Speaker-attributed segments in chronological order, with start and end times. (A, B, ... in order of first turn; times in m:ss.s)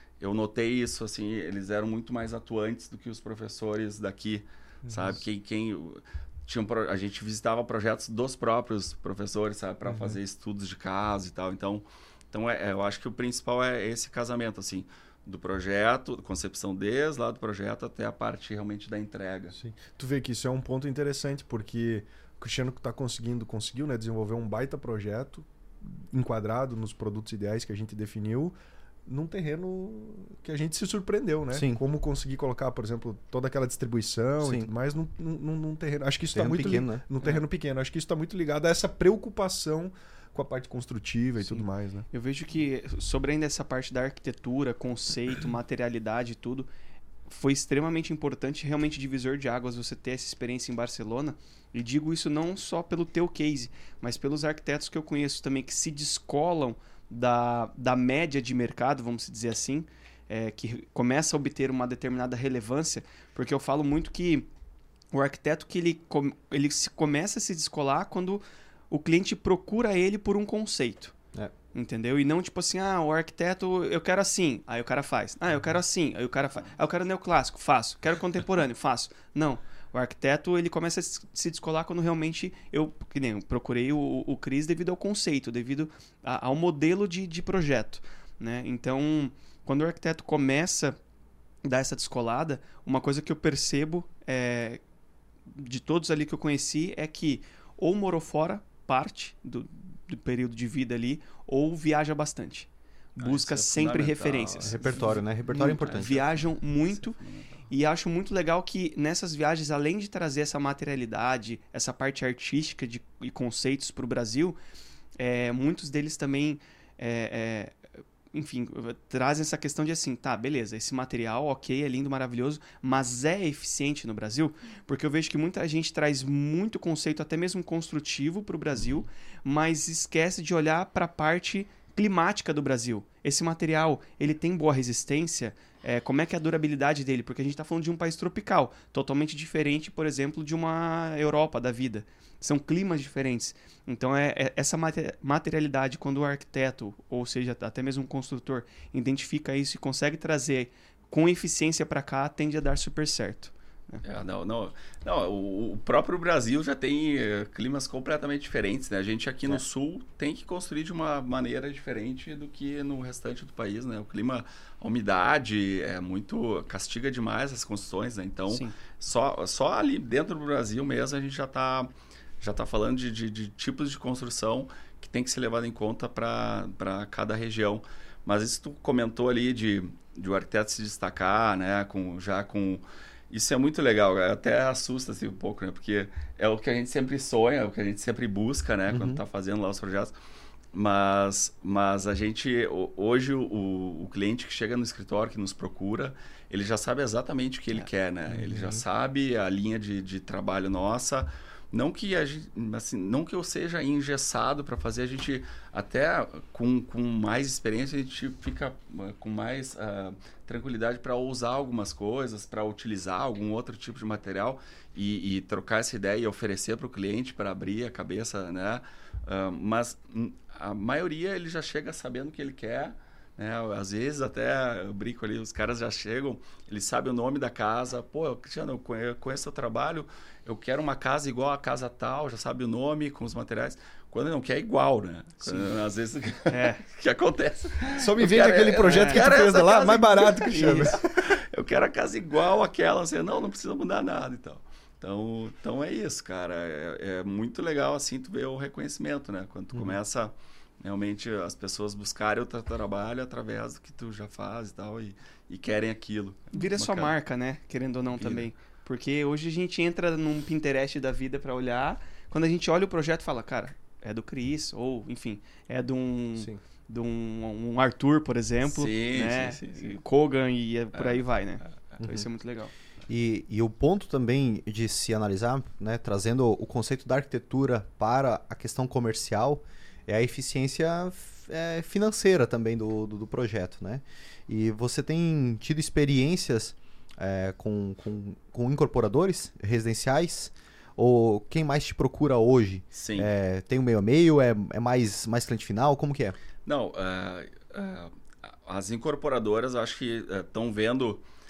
0:00.2-0:19.6 A
0:04.8-0:05.2 B
0:09.8-0:10.2 B
0:19.5-0:28.5 B
0:29.0-0:42.1 B
0:31.5-0:31.8 C
0:34.4-0:34.7 C
0:36.3-0:37.0 C
0:41.5-0:46.7 D
0:47.3-1:04.5 D
1:05.1-1:11.1 D
1:11.7-1:31.0 D
1:31.6-1:34.8 D
1:35.5-1:47.2 D
1:43.2-1:45.2 A
1:44.6-1:46.2 C
1:45.8-1:47.6 A
1:47.7-1:54.6 D
1:55.2-1:57.8 D
1:58.3-2:34.0 D
2:34.0-2:51.9 A
2:48.5-2:48.7 D
2:52.4-3:10.1 A
3:08.9-3:09.2 C
3:10.7-4:17.1 A
3:18.3-3:18.8 B
3:56.5-3:56.8 D
3:58.0-4:01.0 B
3:58.9-3:59.3 D
4:00.5-4:00.9 D
4:16.5-4:32.7 D
4:18.2-4:18.5 A
4:28.7-4:30.0 A
4:30.9-4:32.0 A
4:32.0-4:32.3 C
4:33.1-4:56.4 C
4:52.9-4:53.3 A
4:56.6-5:01.2 A